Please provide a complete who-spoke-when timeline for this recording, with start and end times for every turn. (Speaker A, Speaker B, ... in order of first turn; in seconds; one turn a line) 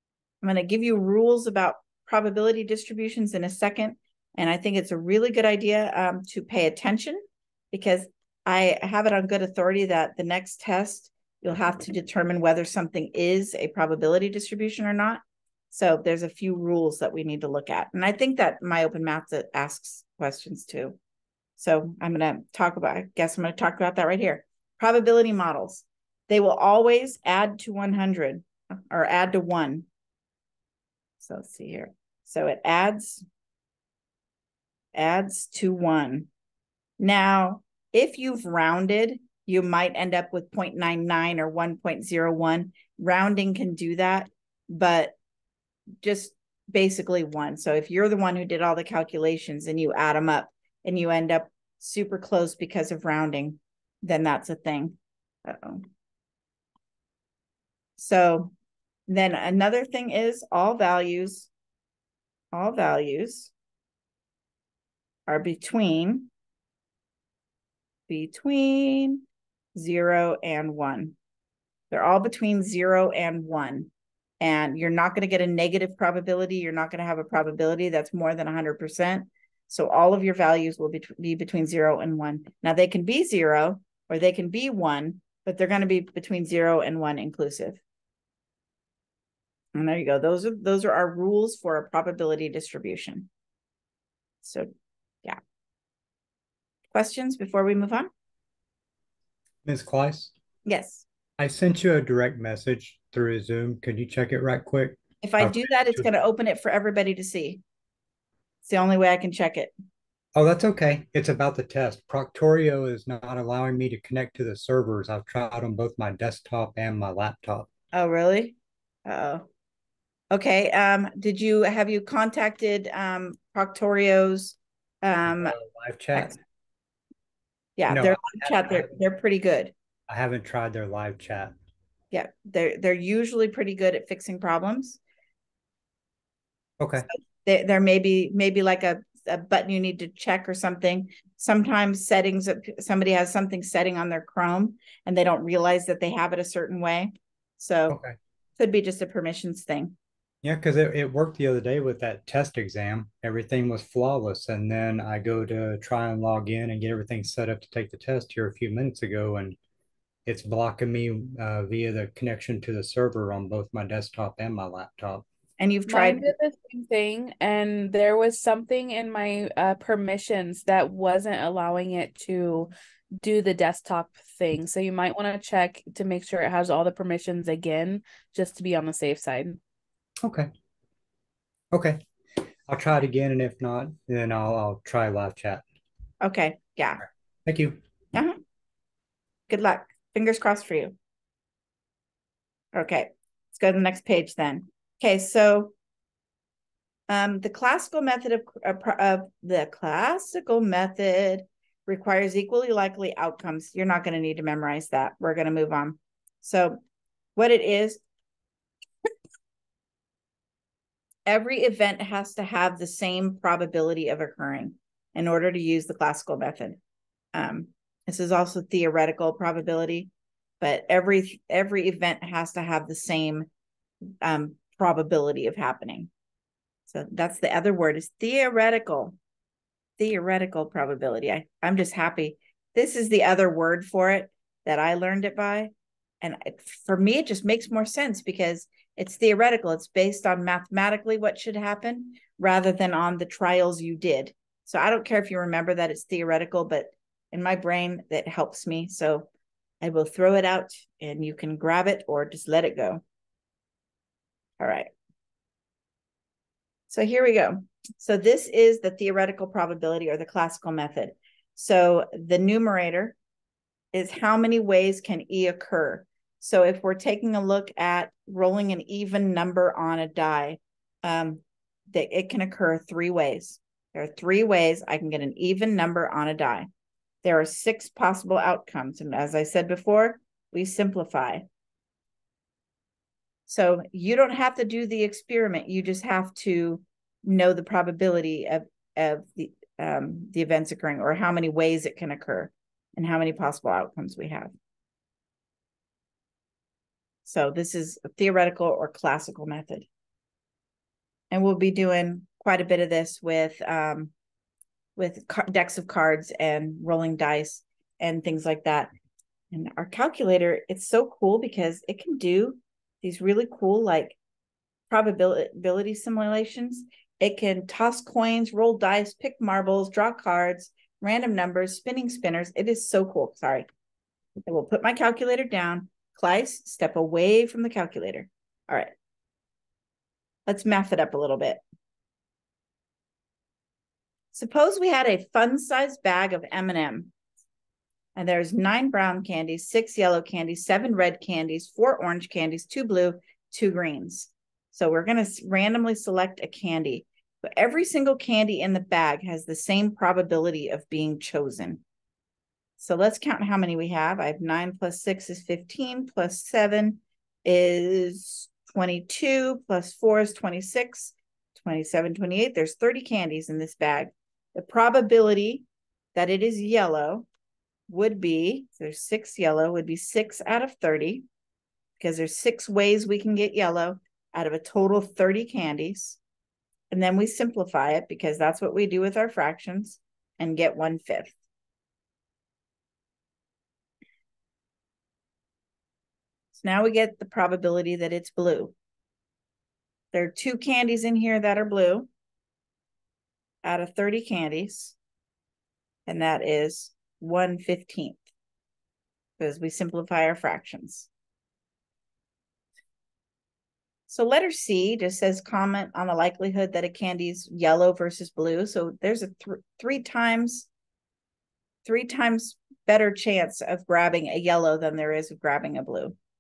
Speaker A: 0.4-21.0
Speaker A: 21.6-29.9
Speaker A: 31.2-33.2
Speaker A: 34.9-36.3
Speaker A: 37.0-45.1
Speaker A: 46.0-55.9
Speaker A: 58.0-58.5
Speaker A: 59.1-61.5
Speaker A: 62.5-63.5
Speaker A: 65.3-66.3
Speaker A: 68.1-71.2
Speaker A: 71.9-87.8
Speaker A: 89.8-93.3
Speaker A: 94.4-94.7
Speaker A: 96.9-98.1
Speaker B: 99.6-100.3
Speaker A: 100.7-101.0
Speaker B: 101.4-106.1
Speaker A: 105.2-107.6
Speaker A: 108.7-109.7
Speaker B: 110.3-117.7
Speaker A: 117.9-118.5
Speaker A: 119.1-119.5
Speaker A: 120.3-125.5
Speaker B: 125.3-126.4
Speaker A: 127.8-129.7
Speaker B: 127.9-128.9
Speaker B: 130.1-131.5
Speaker A: 132.1-135.0
Speaker B: 136.8-137.1
Speaker A: 137.1-148.0
Speaker B: 147.9-148.2
Speaker A: 148.6-149.9
Speaker B: 150.4-159.6
Speaker B: 160.3-165.2
Speaker A: 165.6-166.3
Speaker C: 165.9-179.6
Speaker B: 180.2-180.5
Speaker B: 181.7-182.0
Speaker B: 182.7-185.7
Speaker A: 186.2-187.0
Speaker B: 187.5-187.8
Speaker A: 189.5-190.9
Speaker A: 192.7-195.7
Speaker A: 197.1-206.8
Speaker A: 207.4-208.0
Speaker A: 211.3-216.8
Speaker A: 217.3-223.5
Speaker A: 224.2-226.1
Speaker A: 226.9-229.2
Speaker A: 230.0-249.3
Speaker A: 249.8-253.0
Speaker A: 254.6-254.9
Speaker A: 256.9-263.2
Speaker A: 263.9-276.7
Speaker A: 277.2-281.4
Speaker A: 283.5-294.5
Speaker A: 297.2-299.9
Speaker A: 301.3-304.1
Speaker A: 305.0-308.9
Speaker A: 309.5-314.2
Speaker A: 314.9-323.7
Speaker A: 324.5-328.9
Speaker A: 330.5-331.6
Speaker A: 334.3-337.1
Speaker A: 338.2-351.8
Speaker A: 352.8-367.3
Speaker A: 367.9-371.2
Speaker A: 372.0-376.2
Speaker A: 376.9-381.4
Speaker A: 386.5-388.7
Speaker A: 390.1-392.1
Speaker A: 393.6-394.9
Speaker A: 396.1-398.2
Speaker A: 399.4-401.1
Speaker A: 404.1-410.7
Speaker A: 411.9-416.1